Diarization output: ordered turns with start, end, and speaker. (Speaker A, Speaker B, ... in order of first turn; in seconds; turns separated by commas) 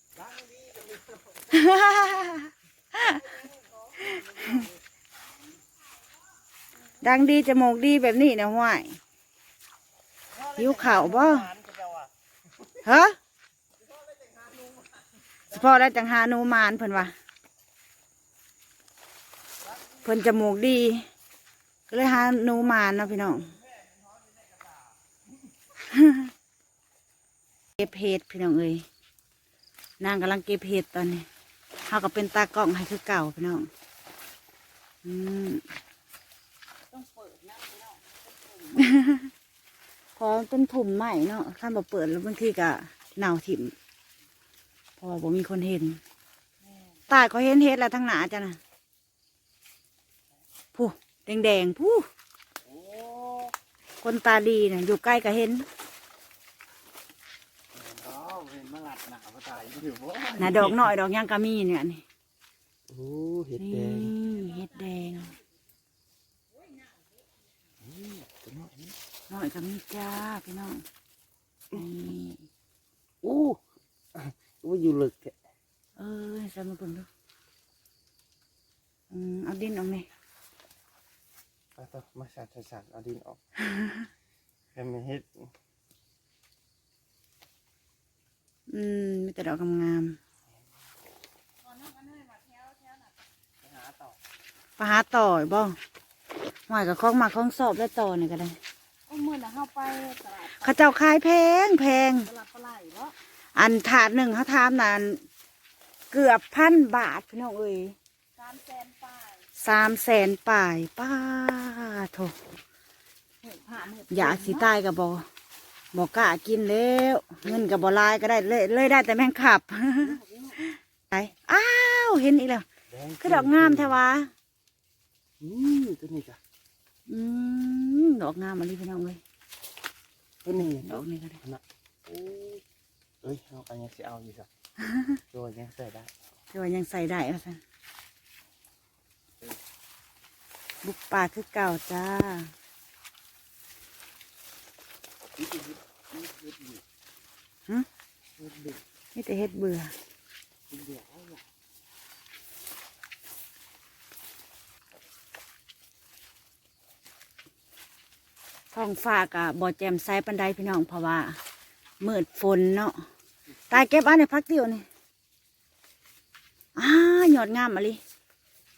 Speaker A: 0.2-1.3, Speaker B: 1.5-3.2, Speaker A: 3.4-4.7, Speaker B: 7.0-9.0, Speaker A: 10.3-12.1, Speaker B: 10.5-11.6, Speaker B: 12.8-13.2, Speaker B: 15.5-17.1, Speaker B: 20.0-21.1, Speaker B: 21.9-23.6, Speaker B: 25.9-26.3, Speaker B: 27.8-28.9, Speaker B: 30.0-31.3, Speaker B: 31.9-33.7, Speaker B: 35.0-35.6, Speaker C: 36.9-39.0, Speaker B: 38.9-39.3, Speaker B: 40.2-43.8, Speaker B: 45.0-46.0, Speaker C: 46.6-47.0, Speaker B: 47.1-48.6, Speaker B: 50.8-52.1, Speaker A: 52.6-53.5, Speaker B: 54.0-55.7, Speaker A: 57.7-60.8, Speaker B: 60.4-62.0, Speaker A: 62.9-64.2, Speaker B: 63.6-65.4, Speaker A: 67.8-69.0, Speaker B: 69.3-70.8, Speaker B: 71.7-72.5, Speaker A: 73.2-73.6, Speaker A: 74.2-75.3, Speaker B: 76.0-77.1, Speaker B: 79.1-80.1, Speaker A: 81.8-83.4, Speaker A: 84.8-85.5, Speaker B: 88.7-90.2, Speaker C: 91.6-93.1, Speaker A: 93.6-94.2, Speaker B: 94.8-95.8, Speaker B: 96.7-98.6, Speaker C: 99.1-100.9, Speaker B: 100.5-102.3, Speaker C: 102.2-103.2, Speaker B: 103.5-105.2, Speaker B: 106.1-108.0, Speaker C: 108.3-109.5, Speaker B: 109.6-112.3, Speaker C: 113.4-114.7, Speaker B: 114.1-115.3, Speaker B: 115.9-120.2, Speaker A: 120.0-120.6, Speaker B: 120.7-122.7, Speaker A: 122.9-124.0, Speaker B: 123.2-124.3, Speaker A: 125.4-126.4, Speaker B: 127.1-129.2, Speaker A: 130.4-132.6, Speaker B: 130.6-131.4, Speaker A: 133.2-134.5, Speaker A: 135.3-136.1, Speaker B: 136.5-137.6, Speaker B: 140.8-142.5, Speaker A: 145.4-146.8, Speaker A: 148.4-148.8, Speaker B: 149.2-149.9, Speaker A: 150.7-151.4, Speaker B: 158.7-161.4, Speaker B: 162.0-163.0, Speaker B: 163.7-164.8, Speaker B: 166.8-168.0